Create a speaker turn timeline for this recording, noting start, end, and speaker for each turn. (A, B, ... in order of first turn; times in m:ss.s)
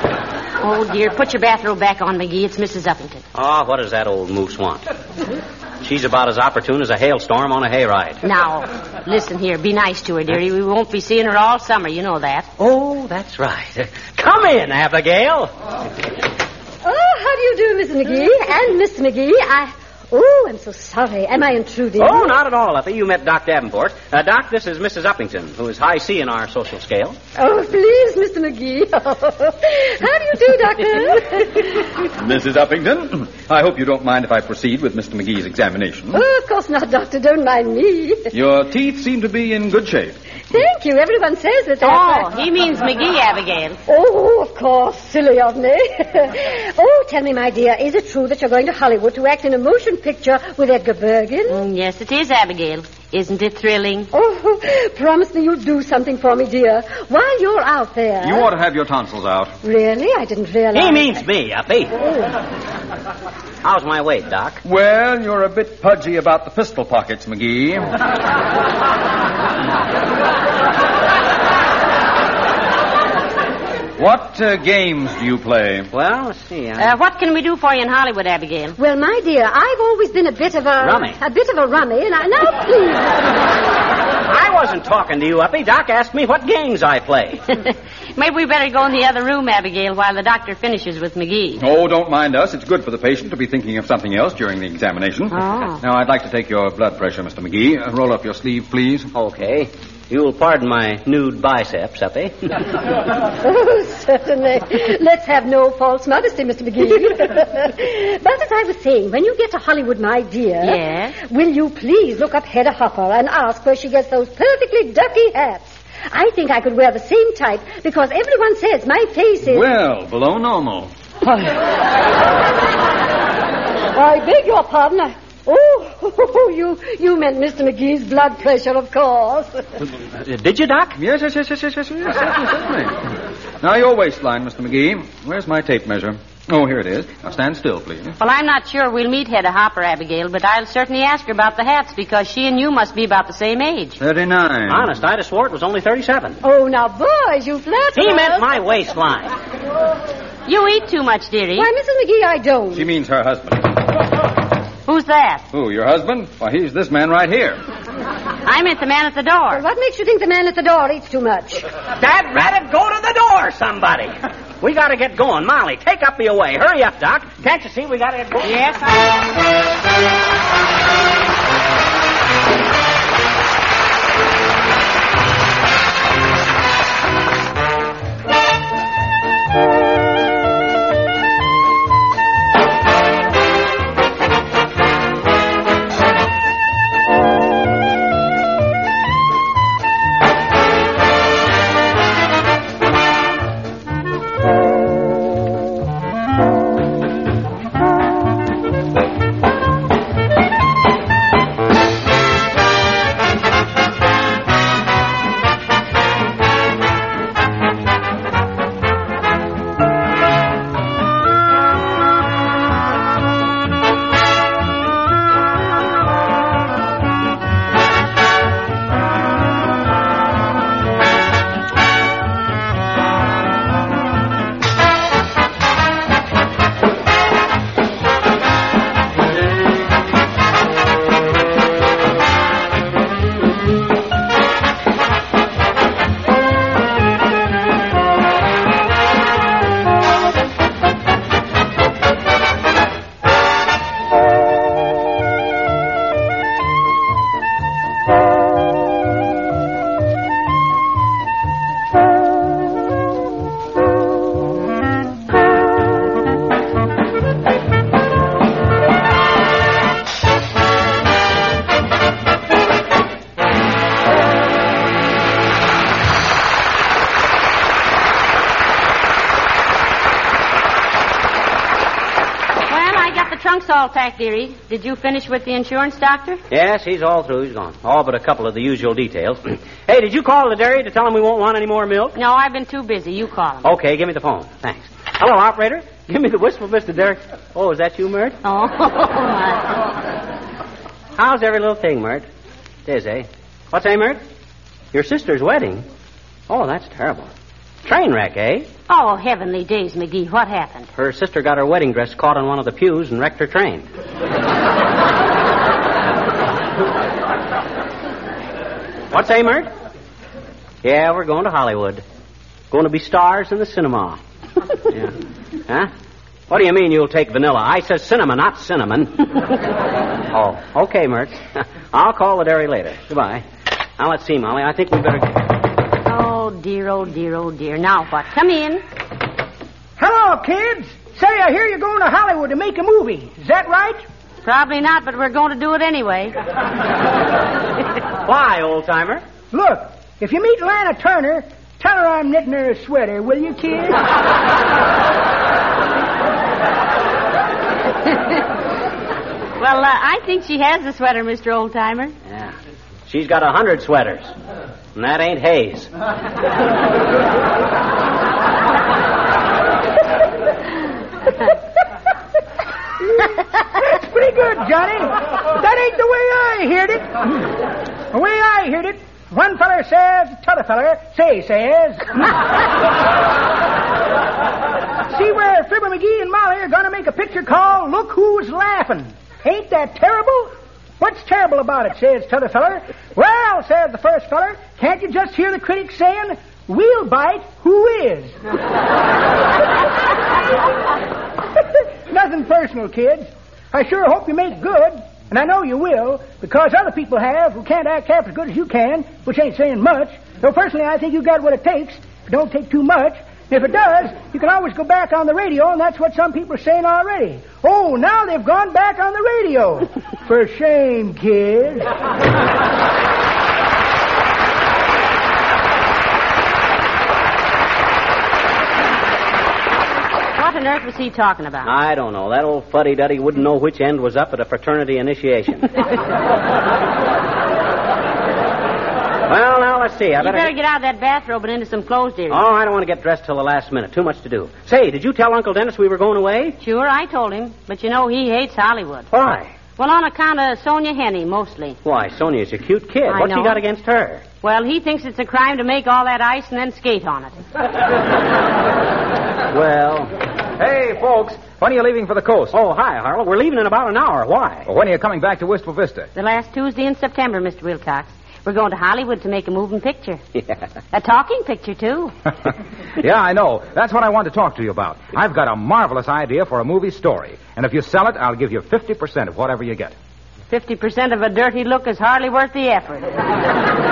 0:00.6-0:03.2 A
0:03.3-0:04.9 B
0:05.8-0:08.2 B
0:08.2-0:12.5 A
0:12.6-0:15.5 B
0:16.8-0:22.3 C
0:22.0-0:27.2 B
0:27.4-0:31.7 C
0:32.2-0:36.2 D
0:36.1-0:38.3 C
0:38.3-0:40.2 D
0:40.5-0:42.3 C
0:41.8-0:43.8 A
0:43.9-0:51.6 C
0:51.5-0:54.1 A
0:54.1-0:58.5 C
0:58.2-0:59.6 D
0:59.6-1:01.2 C
1:00.7-1:01.9 B
1:03.6-1:04.6 B
1:04.6-1:07.9 D
1:14.0-1:15.9 D
1:15.9-1:16.9 B
1:16.8-1:18.8 A
1:18.8-1:23.2 C
1:20.8-1:21.2 B
1:24.2-1:27.4 B
1:27.7-1:31.6 A
1:31.6-1:39.1 D
1:35.3-1:35.8 A
1:39.1-1:42.4 B
1:43.4-1:59.7 C
1:50.6-1:51.1 A
1:59.4-2:00.9 D
2:01.2-2:01.7 C
2:03.9-2:09.6 C
2:10.2-2:11.0 B
2:11.0-2:12.9 D
2:13.6-2:18.1 D
2:18.2-2:24.0 A
2:24.0-2:24.9 D
2:24.7-2:26.4 B
2:26.4-2:28.5 C
2:27.9-2:29.3 B
2:30.5-2:31.7 A
2:31.6-2:32.8 C
2:32.7-2:33.7 D
2:34.9-2:35.4 A
2:35.5-2:37.6 D
2:38.4-2:39.6 A
2:39.5-2:41.6 C
2:42.0-2:48.5 B
2:48.4-2:49.1 A
4:32.7-4:36.4 A
4:36.5-4:42.2 B
4:42.2-4:43.7 A
4:43.6-4:48.4 B
4:48.4-4:49.7 A
4:51.2-4:52.2 B
4:52.8-4:54.2 B
4:54.9-4:55.8 B
4:56.5-4:57.3 B
4:57.8-4:58.7 B
4:58.9-5:00.9 A
5:01.0-5:03.9 B
5:09.1-5:09.7 B
5:10.8-5:12.0 B
5:12.7-5:14.2 B
5:14.9-5:15.1 B
5:16.5-5:19.5 B
5:20.3-5:23.4 B
5:24.0-5:25.4 B
5:26.0-5:28.8 A
5:30.0-5:34.0 E
5:34.4-5:36.3 A
5:38.2-5:39.2 B
5:39.5-5:44.0 E
5:49.6-5:52.1 A
5:52.3-5:52.5 B
5:53.1-5:54.3 B
5:54.9-5:55.9 B
6:03.0-6:07.5 E
6:08.1-6:12.4 E
6:15.1-6:28.4 E
6:32.1-6:51.9 E
7:00.4-7:01.7 A
7:01.6-7:05.8 B
7:09.3-7:10.5 B
7:10.2-7:12.4 A
7:12.3-7:16.6 B
7:16.6-7:19.1 A
7:19.1-7:19.5 B
7:19.8-7:21.8 A
7:21.8-7:24.2 B
7:23.1-7:23.6 A
7:24.4-7:27.4 A
7:29.5-7:30.1 B
7:30.6-7:32.6 F
7:32.5-7:34.7 B
7:34.6-7:36.1 F
7:36.2-7:40.2 A
7:40.9-7:42.1 A
7:43.0-7:49.9 F
7:50.5-7:53.1 A